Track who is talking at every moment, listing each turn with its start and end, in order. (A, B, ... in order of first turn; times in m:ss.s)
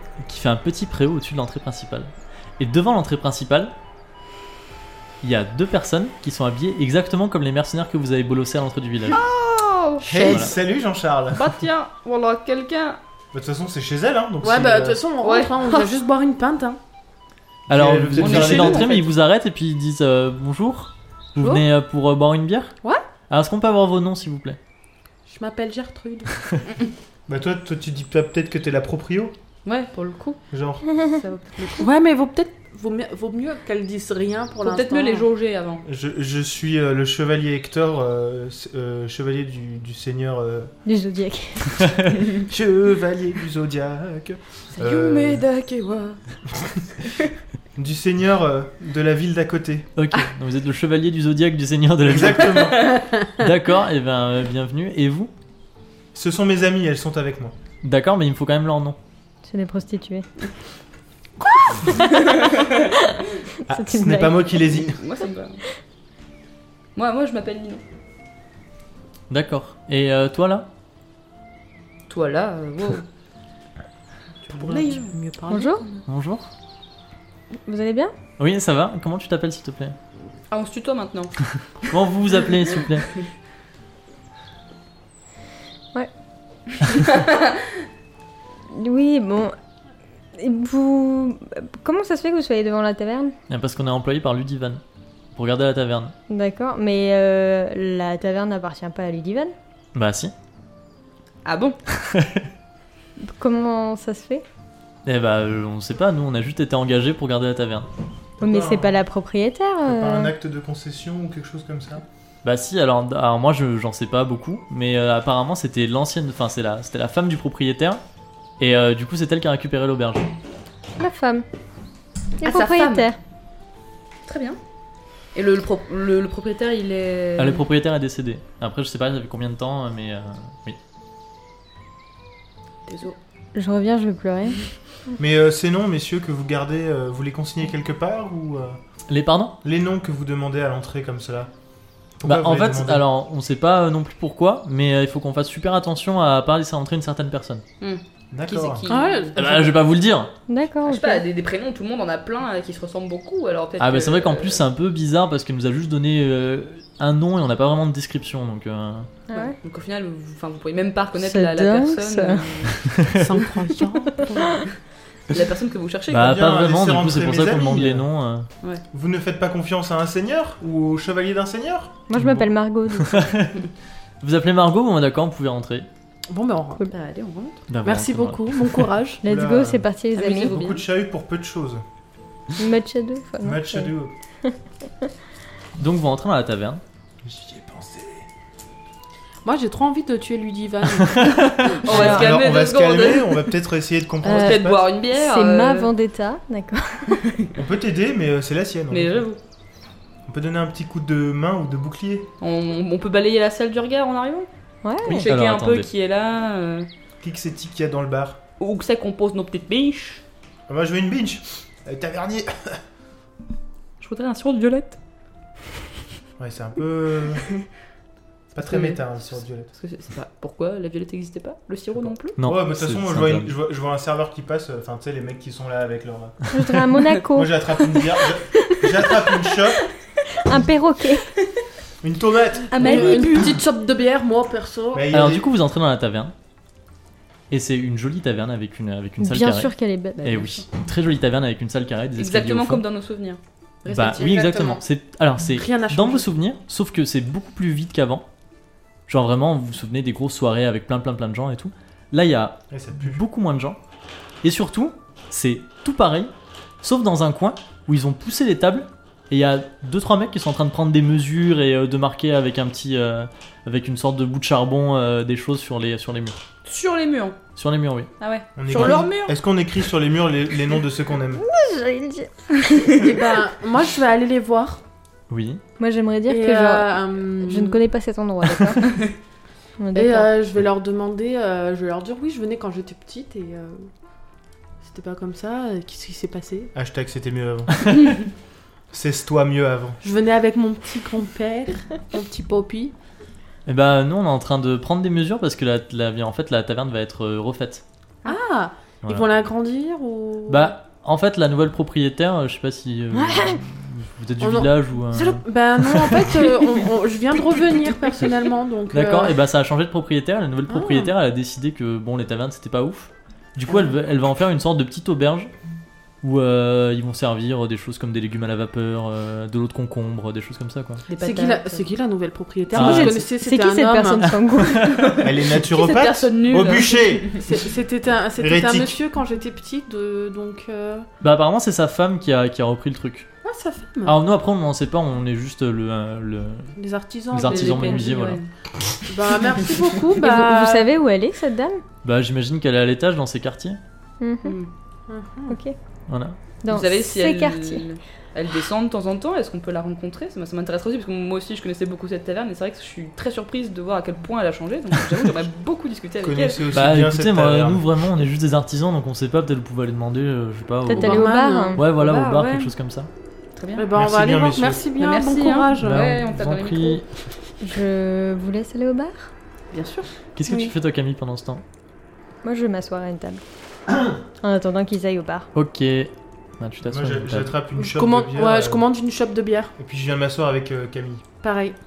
0:00.2-0:03.7 A
0:05.2-0:09.2 A
0:09.1-0:10.5 B
0:10.1-0:11.5 C
0:10.1-0:10.5 A
0:11.3-0:13.0 B
0:13.3-0:15.0 C
0:14.4-0:16.8 D
0:15.2-0:15.9 B
0:17.7-0:19.0 C
0:17.7-0:22.7 A
0:18.2-0:19.0 B
0:23.3-0:24.6 A
0:25.2-0:26.4 D
0:27.3-0:29.3 C
0:29.6-0:30.4 B
0:30.5-0:30.8 C
0:31.0-0:31.9 B
0:31.8-0:35.2 D
0:34.6-0:35.8 B
0:35.8-0:40.7 C
0:40.8-0:41.9 E
0:41.8-0:42.1 A
0:42.4-0:45.4 C
0:44.7-0:46.2 B
0:46.6-0:46.8 C
0:47.8-0:49.9 C
0:50.0-0:55.3 A
0:52.0-0:52.9 C
0:52.5-0:53.0 B
0:53.0-0:53.4 D
0:56.1-0:57.5 C
0:57.8-0:59.0 A
0:59.5-1:00.2 E
1:01.8-1:04.9 E
1:02.1-1:02.8 B
1:03.7-1:05.0 C
1:04.9-1:05.6 B
1:07.0-1:07.8 B
1:09.3-1:10.7 A
1:12.1-1:13.0 B
1:14.5-1:16.0 D
1:14.5-1:15.1 B
1:15.5-1:15.8 E
1:16.1-1:16.4 A
1:17.6-1:18.1 E
1:18.4-1:20.0 A
1:20.5-1:21.4 B
1:21.8-1:23.1 A
1:26.9-1:27.5 B
1:28.7-1:29.6 E
1:30.4-1:33.3 E
1:33.5-1:34.8 A
1:35.3-1:36.1 A
1:36.3-1:39.5 E
1:39.9-1:40.3 A
1:41.4-1:41.8 B
1:42.0-1:42.4 A
1:43.2-1:44.4 E
1:45.0-1:47.9 A
1:48.4-1:49.0 C
1:48.4-1:50.3 E
1:49.8-1:52.0 C
1:52.4-1:58.0 A
1:58.6-2:00.3 A
2:01.0-2:01.4 E
2:02.4-2:03.1 B
2:02.4-2:03.2 E
2:04.2-2:04.6 B
2:05.3-2:07.6 B
2:07.4-2:10.8 A
2:12.9-2:13.2 B
2:13.5-2:14.6 E
2:15.2-2:18.8 C
2:19.1-2:19.6 A
2:19.6-2:21.5 C
2:22.2-2:23.0 C
2:22.2-2:27.6 A
2:27.8-2:29.8 B
2:28.3-2:28.8 C
2:28.9-2:29.4 D
2:29.4-2:30.3 A
2:30.5-2:31.2 E
2:30.8-2:34.6 B
2:33.8-2:39.1 A
2:39.3-2:39.6 E
2:39.3-2:42.9 B
2:41.2-2:42.4 E
2:42.8-2:43.2 A
2:43.0-2:44.6 D
2:45.3-2:46.4 B
2:46.1-2:48.5 A
2:46.1-2:48.1 C
2:48.9-2:51.9 C
2:52.1-2:53.4 E
2:52.2-2:52.5 A
2:53.0-2:53.6 A
2:54.2-2:55.9 A
2:56.3-2:56.9 D
2:56.9-2:57.6 B
2:57.7-2:58.9 A
2:57.8-2:59.2 D
2:59.2-3:00.6 E
2:59.2-2:59.8 C
3:00.1-3:00.8 B
3:00.4-3:01.8 C
3:02.6-3:03.9 E
3:03.4-3:04.1 C
3:05.8-3:06.8 A
3:07.2-3:08.2 C
3:09.4-3:11.8 D
3:11.4-3:13.5 B
3:11.8-3:12.3 E
3:11.8-3:14.8 C
3:14.2-3:15.9 B
3:14.2-3:17.2 E
3:17.2-3:17.5 B
3:17.5-3:19.2 C
3:18.9-3:19.4 B
3:20.3-3:22.3 C
3:22.4-3:24.5 B
3:24.8-3:25.2 E
3:25.0-3:25.9 A
3:25.1-3:26.9 B
3:27.2-3:28.4 C
3:28.6-3:30.2 B
3:30.7-3:32.8 C
3:34.0-3:35.0 B
3:36.4-3:37.5 C
3:38.5-3:39.7 C
3:38.6-3:39.0 B
3:39.7-3:42.4 B
3:42.4-3:43.5 A
3:42.4-3:46.4 C
3:46.5-3:47.6 E
3:47.3-3:49.9 C
3:50.4-3:51.3 E
3:52.0-3:53.2 C
3:52.7-3:53.6 B
3:52.8-3:55.1 D
3:52.8-3:53.3 E
3:54.9-3:55.5 C
3:55.1-3:56.3 A
3:57.5-4:02.8 A
3:59.2-4:00.6 E
4:02.2-4:03.4 B
4:03.8-4:04.8 D
4:03.9-4:08.2 A
4:05.5-4:06.3 D
4:09.1-4:13.8 A
4:12.7-4:13.2 C
4:14.4-4:16.3 A
4:16.8-4:26.4 A
4:26.6-4:27.4 B
4:27.6-4:28.1 A
4:28.2-4:29.4 B
4:28.6-4:31.4 C
4:31.4-4:33.1 E
4:32.9-4:34.8 D
4:35.3-4:35.6 A
4:35.8-4:39.1 E
4:36.3-4:37.8 D
4:39.8-4:40.3 E
4:39.9-4:43.9 D
4:44.8-4:46.7 D
4:46.7-4:48.2 C
4:48.9-4:50.0 C
4:50.0-4:52.9 D
4:53.6-4:57.8 A
4:58.2-5:00.7 D
5:00.5-5:06.6 A
5:03.2-5:03.6 E
5:04.4-5:09.4 D
5:08.9-5:15.5 A
5:10.7-5:11.1 D
5:16.2-5:21.0 A
5:21.1-5:21.8 B
5:21.1-5:24.3 D
5:22.7-5:23.3 A
5:22.8-5:24.9 E
5:24.3-5:25.2 A
5:24.8-5:27.4 B
5:25.2-5:27.4 C
5:27.3-5:31.0 D
5:28.4-5:29.0 C
5:31.2-5:33.3 A
5:33.4-5:34.2 D
5:34.0-5:36.7 A
5:36.8-5:38.2 D
5:37.3-5:38.4 A
5:37.4-5:38.5 B
5:39.1-5:40.9 D
5:40.2-5:41.8 E
5:42.0-5:43.8 A
5:44.2-5:44.6 E
5:44.4-5:44.7 B
5:45.1-5:45.6 D
5:45.5-5:45.7 E
5:46.1-5:46.4 A
5:46.6-5:47.8 E
5:46.7-5:56.6 B
5:56.2-5:57.8 C
5:56.7-6:03.1 A
6:00.9-6:01.8 E
6:00.9-6:01.8 D
6:01.8-6:02.7 B
6:03.6-6:03.8 B
6:03.7-6:06.1 D
6:03.9-6:04.8 C
6:05.0-6:07.0 B
6:05.8-6:07.1 A
6:07.6-6:09.3 E
6:09.7-6:10.1 B
6:10.4-6:11.6 A
6:12.4-6:13.4 E
6:14.4-6:15.5 E
6:15.5-6:17.5 A
6:16.9-6:18.8 C
6:17.8-6:19.7 D
6:19.8-6:21.2 C
6:21.4-6:21.8 D